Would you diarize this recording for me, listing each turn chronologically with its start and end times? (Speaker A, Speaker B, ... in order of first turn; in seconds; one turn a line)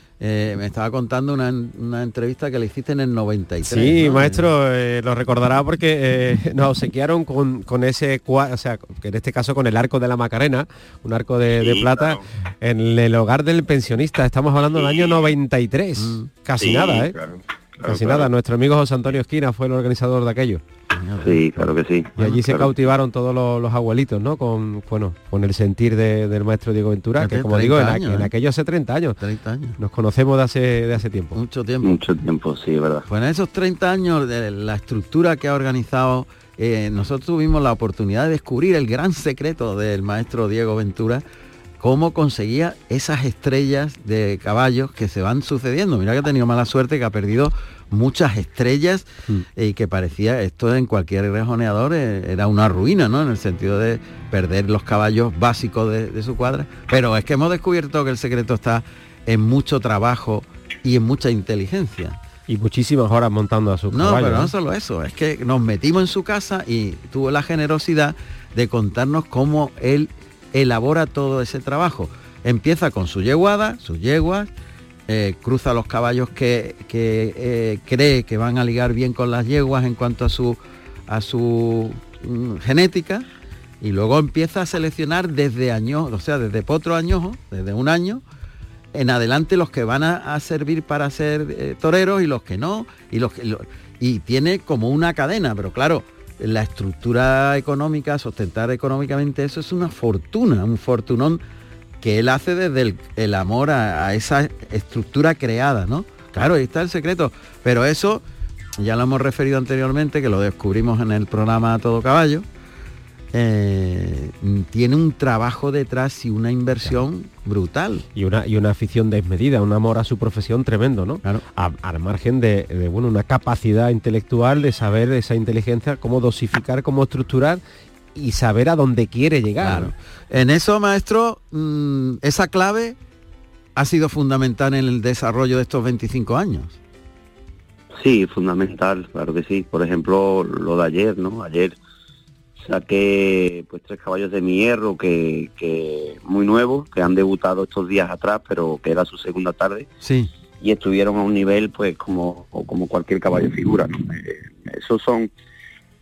Speaker A: 0.2-4.4
Speaker B: 3.7-17.1
Speaker C: 11.5-12.2
Speaker A: 15.9-16.3
Speaker C: 16.6-18.3
Speaker B: 17.9-20.6
Speaker A: 20.9-21.7
Speaker C: 21.2-22.7
Speaker B: 22.2-29.2
Speaker A: 27.2-28.3
Speaker A: 29.2-29.8
Speaker B: 29.8-31.4
Speaker A: 31.3-32.0
Speaker C: 31.8-33.0
Speaker A: 33.0-41.2
Speaker A: 41.8-62.1
Speaker B: 62.5-64.5
Speaker A: 63.9-74.5
Speaker A: 75.1-83.2
Speaker A: 83.8-88.2
Speaker A: 88.9-101.4
Speaker A: 102.0-108.2
Speaker A: 108.8-112.4
Speaker A: 113.3-118.0
Speaker B: 118.1-127.6
Speaker B: 128.1-129.9
Speaker A: 129.6-133.0
Speaker A: 133.8-136.8
Speaker C: 138.0-141.8
Speaker C: 142.6-149.9
Speaker A: 150.0-150.3
Speaker C: 150.6-155.3